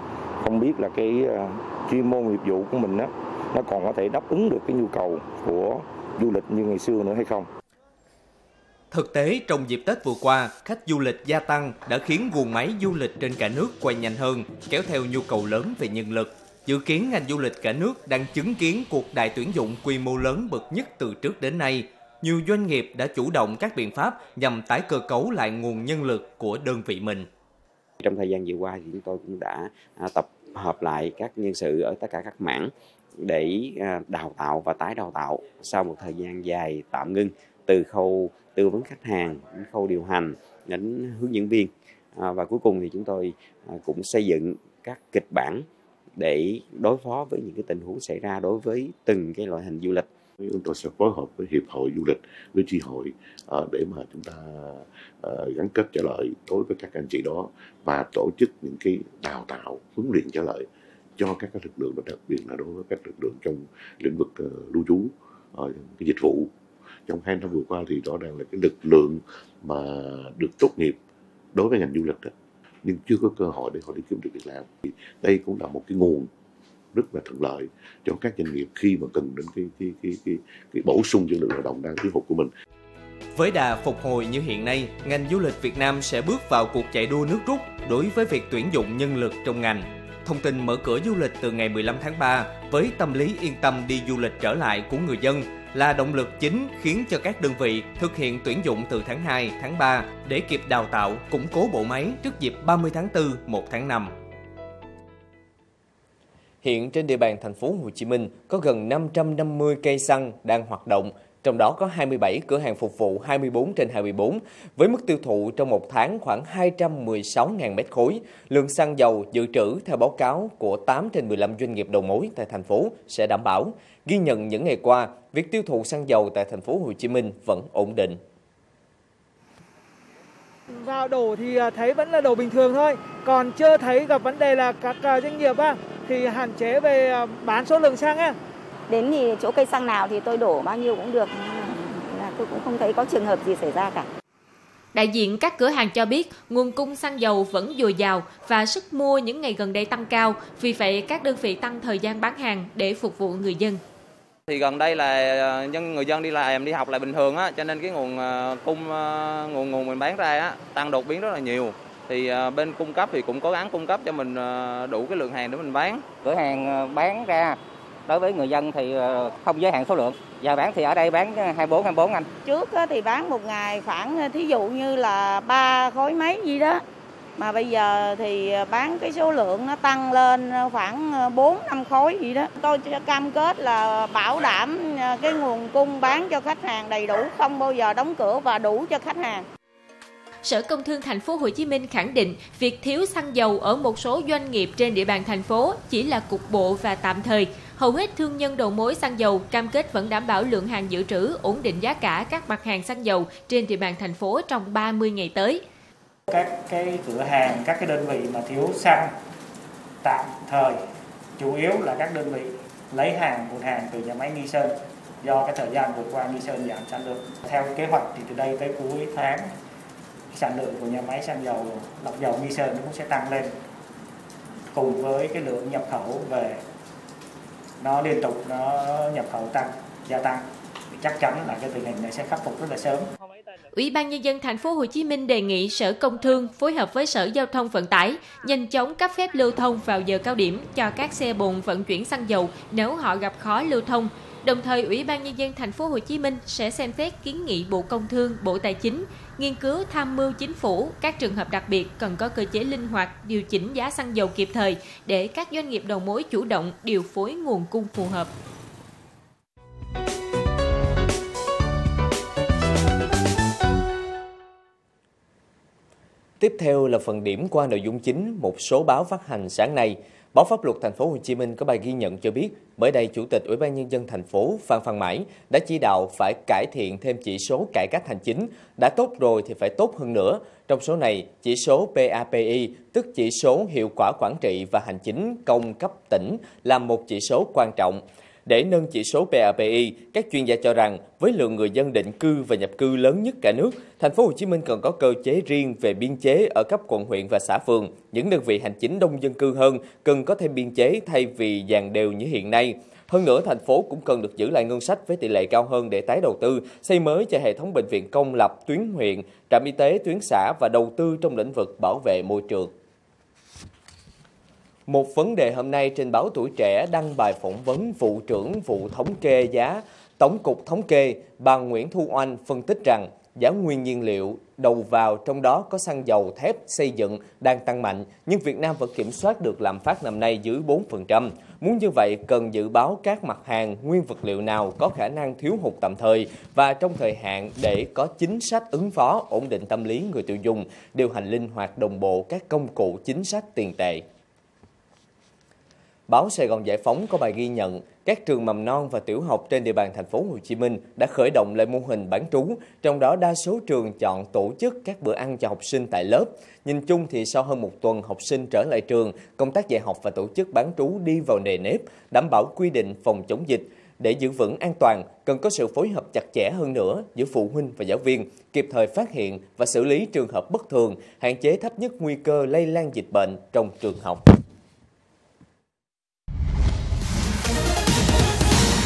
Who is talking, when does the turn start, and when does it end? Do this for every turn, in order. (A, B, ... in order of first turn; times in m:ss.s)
0:00.4-0:07.5 A
0:08.9-0:27.3 B
0:28.0-0:45.7 C
0:46.2-0:50.1 C
0:50.4-1:06.5 D
1:07.1-1:11.0 D
1:11.5-1:12.3 D
1:12.8-1:16.3 D
1:16.9-1:22.5 D
1:23.3-1:44.1 B
1:46.6-2:08.2 B
2:10.7-2:18.4 E
2:18.9-2:24.0 F
2:24.9-2:33.8 G
2:34.5-2:46.0 H
2:46.2-2:52.3 I
2:52.4-2:56.8 F
2:57.4-3:09.4 F
3:10.4-3:25.6 G
3:26.3-3:29.1 J
3:30.0-3:30.8 J
3:31.4-3:39.5 J
3:40.3-3:43.6 J
3:44.7-3:46.6 J
3:47.8-3:53.1 J
3:53.7-4:18.3 G
4:26.4-5:12.7 B
5:14.9-5:44.0 B
5:46.1-6:14.2 B